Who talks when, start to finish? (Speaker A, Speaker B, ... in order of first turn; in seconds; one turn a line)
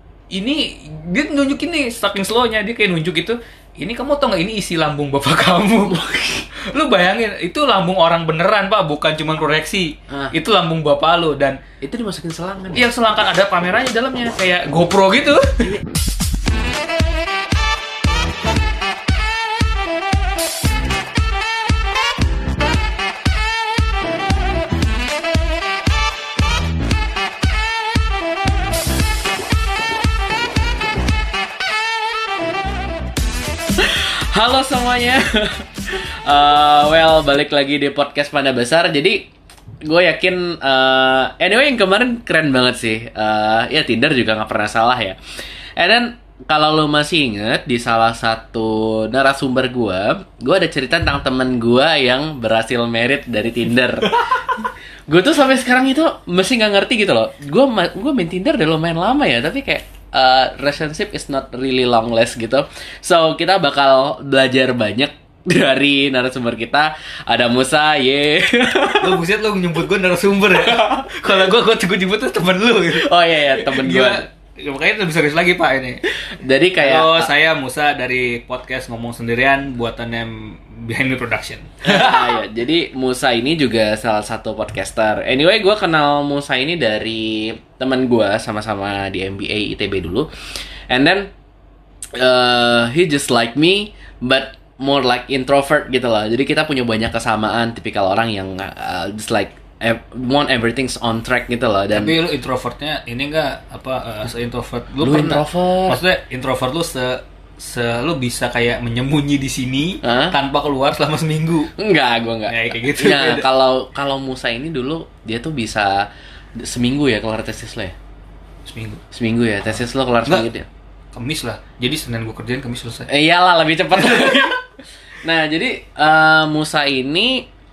Speaker A: 0.3-6.0
Speaker B: 5.8-6.5
Speaker A: 6.6-11.6
Speaker B: 10.1-10.3
Speaker B: 11.8-12.8
Speaker A: 12.7-15.7
Speaker B: 33.7-39.2
Speaker B: 39.8-45.2
Speaker B: 45.8-54.4
Speaker A: 54.0-54.7
Speaker B: 55.1-69.2
Speaker A: 68.9-76.0
Speaker B: 70.5-71.4
Speaker B: 72.9-74.2
Speaker B: 76.1-77.3
Speaker A: 76.8-82.4
Speaker B: 81.8-91.3
Speaker B: 92.1-102.1
Speaker A: 101.9-111.7
Speaker B: 105.0-106.0
Speaker B: 110.0-110.3
Speaker B: 111.8-116.1
Speaker A: 112.5-113.5
Speaker B: 116.6-117.9
Speaker A: 118.7-119.0
Speaker B: 119.1-120.7
Speaker A: 121.1-123.1
Speaker B: 123.1-124.6
Speaker A: 123.9-124.6
Speaker B: 125.2-127.5